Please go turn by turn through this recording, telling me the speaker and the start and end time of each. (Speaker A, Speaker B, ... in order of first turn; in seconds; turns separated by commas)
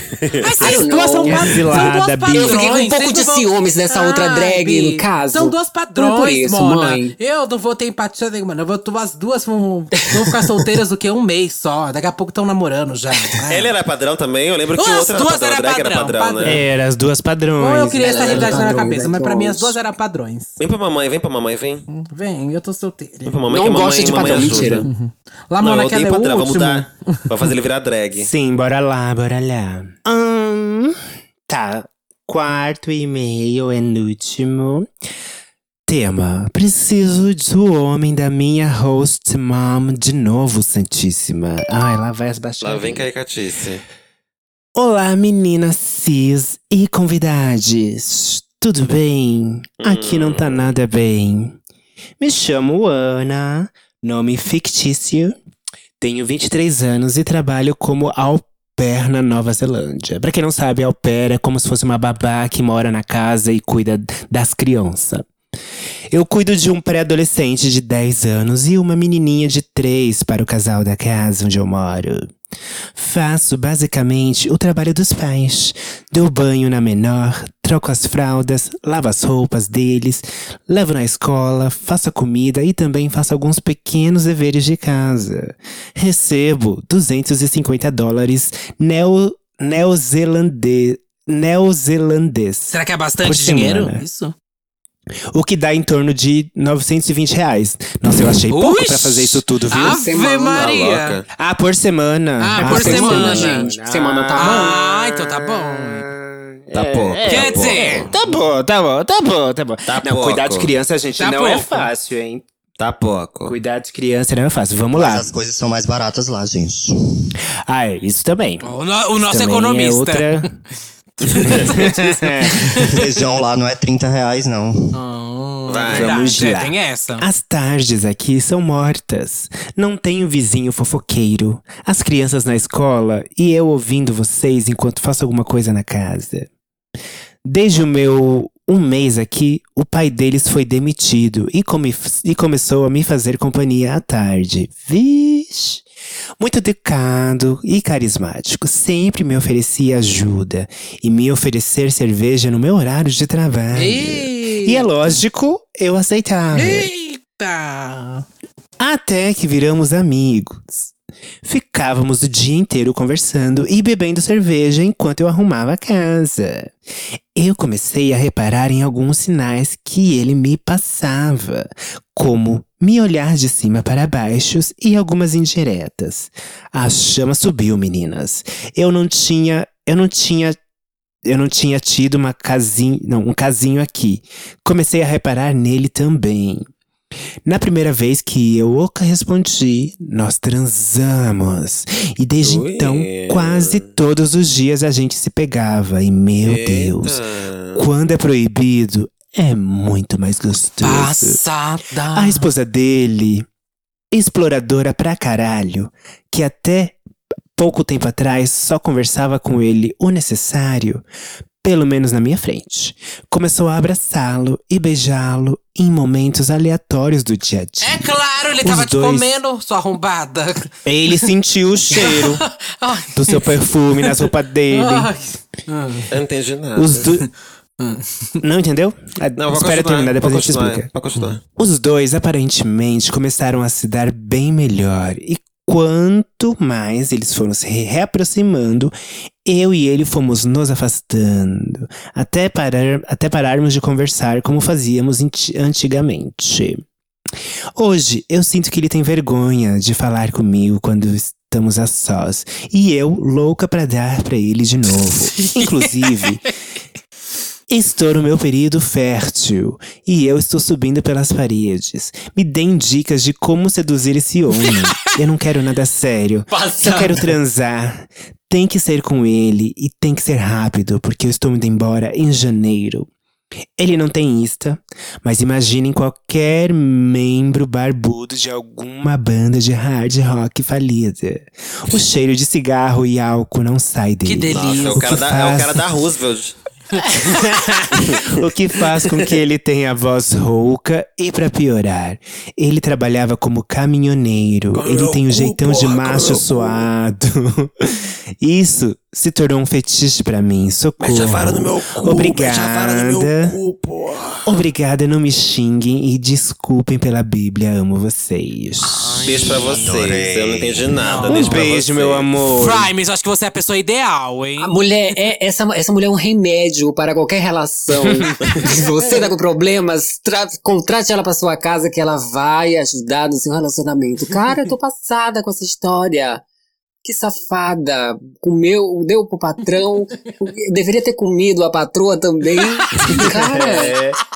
Speaker A: 0.2-0.4, Speaker B: 0.4-13.7, Speaker C: 0.6-7.2, Speaker D: 0.6-2.7, Speaker C: 9.9-10.8, Speaker A: 13.5-16.6, Speaker B: 14.8-16.6, Speaker D: 16.4-18.9, Speaker B: 17.6-20.6, Speaker C: 18.0-19.8, Speaker A: 20.6-21.9, Speaker B: 21.9-23.4, Speaker A: 23.2-24.9, Speaker C: 23.5-24.9, Speaker B: 24.0-27.3, Speaker A: 25.6-28.3, Speaker D: 28.2-34.9, Speaker D: 35.9-43.1, Speaker A: 42.6-43.8, Speaker D: 44.8-51.6, Speaker A: 49.8-50.8, Speaker D: 52.2-55.4, Speaker D: 56.0-65.3, Speaker D: 66.1-72.3, Speaker D: 73.0-94.0, Speaker B: 92.7-94.3, Speaker D: 95.3-100.0, Speaker B: 98.5-101.2, Speaker C: 99.8-100.7, Speaker A: 100.5-101.3, Speaker D: 101.4-112.5, Speaker B: 102.4-103.7, Speaker C: 102.6-104.8, Speaker B: 104.4-106.1, Speaker A: 106.7-108.1, Speaker B: 107.3-108.1, Speaker A: 109.9-110.7, Speaker B: 111.2-111.9, Speaker A: 112.8-113.5, Speaker D: 113.5-115.3, Speaker E: 115.0-117.3, Speaker D: 117.7-118.7, Speaker B: 118.6-120.6, Speaker D: 119.2-120.5, Speaker B: 121.2-123.0, Speaker A: 121.3-121.6, Speaker D: 121.5-122.7, Speaker E: 122.8-125.0, Speaker B: 124.9-127.2, Speaker A: 125.7-126.2, Speaker D: 125.9-136.5, Speaker D: 137.4-145.8, Speaker D: 146.4-156.9, Speaker B: 153.7-155.2, Speaker B: 156.5-158.2, Speaker D: 158.8-160.9, Speaker D: 161.4-166.7, Speaker D: 167.3-180.6, Speaker D: 181.2-186.7, Speaker D: 187.5-197.2, Speaker A: 192.4-193.9, Speaker A: 196.4-197.8, Speaker D: 197.8-201.4, Speaker B: 200.8-202.5, Speaker D: 202.1-203.5, Speaker D: 204.1-207.0, Speaker D: 207.6-211.0, Speaker D: 211.6-219.3, Speaker B: 217.8-221.2, Speaker D: 220.8-222.5, Speaker B: 221.9-226.1, Speaker D: 223.1-225.1, Speaker A: 226.1-227.1, Speaker D: 226.8-227.3, Speaker B: 227.8-228.3, Speaker D: 228.4-230.9, Speaker A: 229.4-231.4, Speaker D: 231.6-238.9, Speaker D: 239.4-246.9, Speaker D: 247.8-256.5, Speaker B: 255.4-256.4, Speaker D: 257.7-273.1, Speaker B: 264.6-264.9, Speaker C: 266.5-267.3, Speaker D: 273.8-285.8, Speaker B: 284.2-285.2, Speaker A: 284.5-286.6, Speaker D: 287.1-303.6, Speaker A: 287.9-288.3, Speaker A: 294.7-296.9, Speaker A: 301.0-304.5, Speaker D: 304.4-309.3, Speaker E: 309.1-311.0, Speaker B: 309.2-309.7, Speaker A: 309.2-312.3, Speaker B: 311.0-311.6, Speaker D: 311.3-312.9, Speaker B: 312.4-314.8, Speaker C: 314.6-326.4, Speaker C: 327.0-334.0, Speaker B: 332.6-333.9, Speaker D: 333.4-334.2